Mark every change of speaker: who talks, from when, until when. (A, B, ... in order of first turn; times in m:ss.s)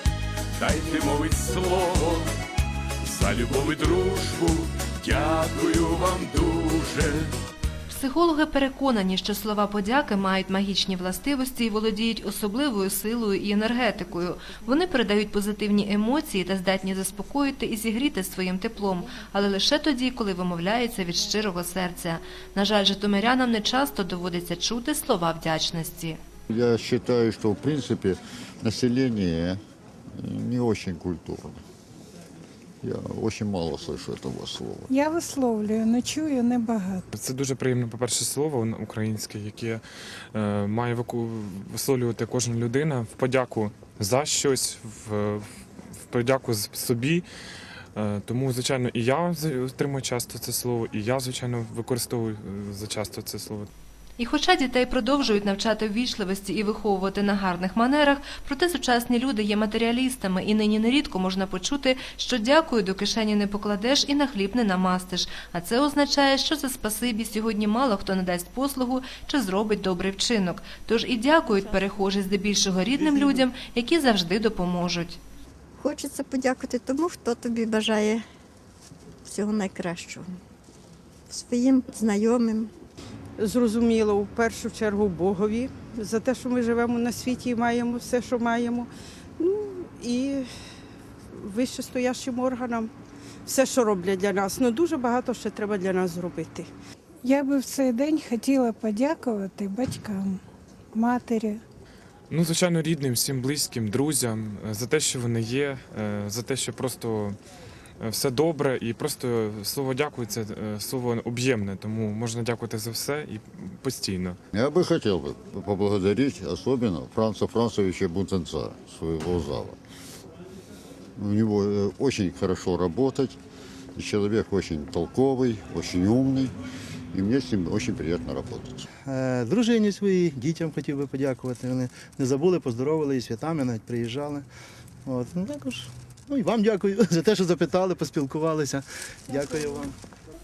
0:00.6-0:02.3 A
0:03.1-0:07.3 A
0:07.9-0:26.2 B
0:26.5-0:29.6 C
0:30.2-0:31.6 C
0:32.8-0:34.9 C
0:34.9-0:37.0 D
0:37.1-0:39.8 E
0:40.3-0:45.4 E
0:46.0-0:47.2 E
0:48.0-0:53.7 E
0:54.2-1:15.2 B
1:15.8-1:18.2 F
1:19.2-1:20.3 F
1:21.3-1:22.7 F
1:23.4-1:30.5 G
1:31.3-1:32.9 G
1:33.5-1:36.7 G
1:37.2-1:40.4 D
1:40.9-1:41.6 D
1:42.3-1:47.4 E
1:48.0-1:54.4 E
1:54.5-1:59.8 C
2:01.2-2:03.4 C
2:04.0-2:06.6 C
2:07.1-2:08.8 C
2:09.1-2:14.5 H
2:15.1-2:19.9 H
2:19.6-2:19.8 D